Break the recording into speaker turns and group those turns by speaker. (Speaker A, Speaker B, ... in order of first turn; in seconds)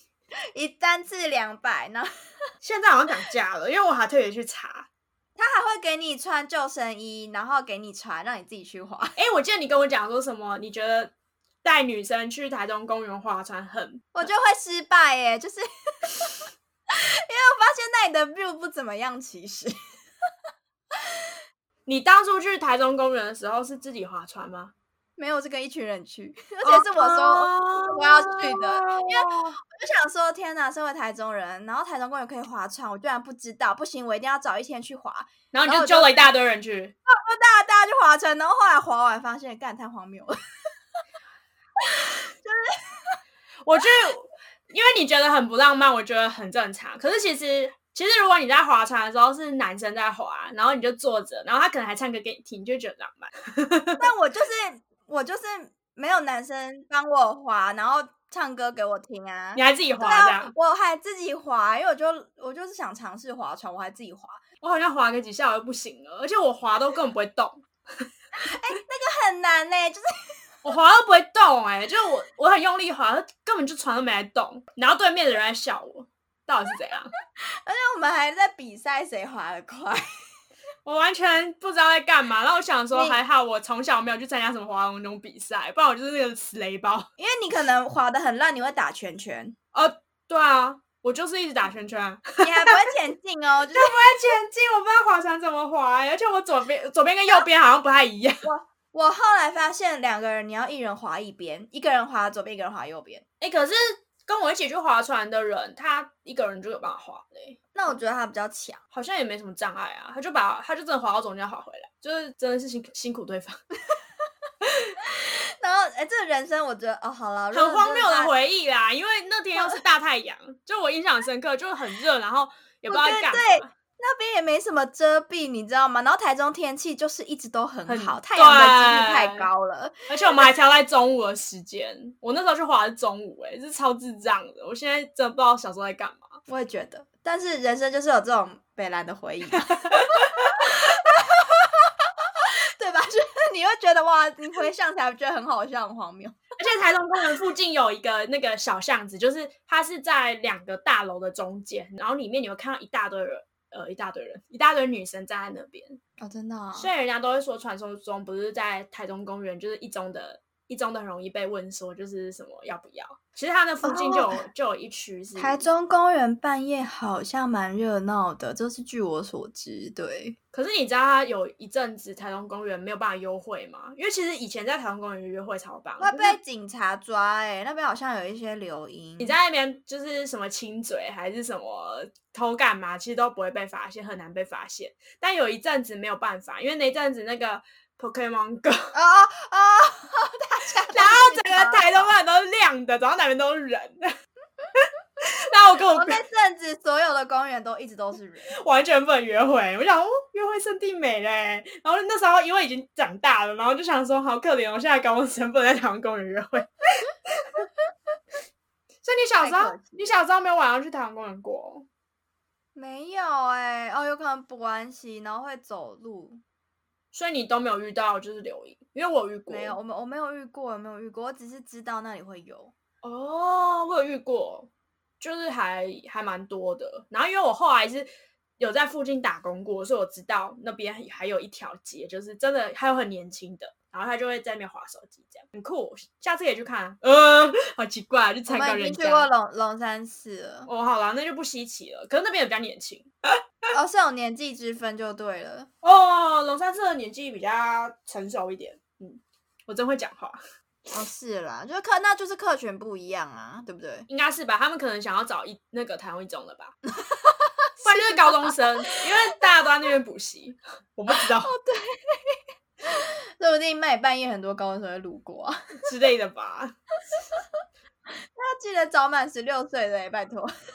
Speaker A: 0.5-2.1, 5.4-9.2, 14.1-19.7, 25.2-36.2, 37.1-40.3, 41.8-43.2, 54.0-64.4, 68.4-70.0, 77.6-80.0, 82.9-83.2, 87.2-89.5, 92.4-94.2, 98.4-103.2, 107.7-108.8, 115.0-118.3, 122.9-130.5, 136.5-146.4, 156.2-156.9, 163.8-164.4, 165.4-170.3, 176.0-179.4, 188.9-192.0, 195.9-198.6, 209.4-210.0, 212.8-216.4, 219.5-222.7, 238.5-240.7, 243.7-245.7, 250.9-254.1, 257.0-259.1, 261.1-265.6, 268.4-270.5
Speaker B: 2.6-4.9, 9.2-14.3, 21.9-24.7, 26.6-29.6, 35.5-36.9, 43.6-54.0, 59.5-60.5, 64.6-68.0, 70.6-77.1, 80.8-87.1, 89.7-92.9, 93.7-98.4, 103.4-108.0, 108.9-113.6, 117.5-123.7, 127.9-129.5, 130.1-136.3, 139.7-140.5, 146.6-156.0, 156.8-165.7, 170.5-176.4, 179.2-188.9, 190.9-194.1, 194.8-196.2, 198.5-207.7, 209.0-211.8, 217.1-219.8, 223.0-224.7, 225.2-228.1, 228.6-239.3, 240.7-243.1, 245.8-250.4, 254.1-256.8, 257.8-261.5, 265.8-266.8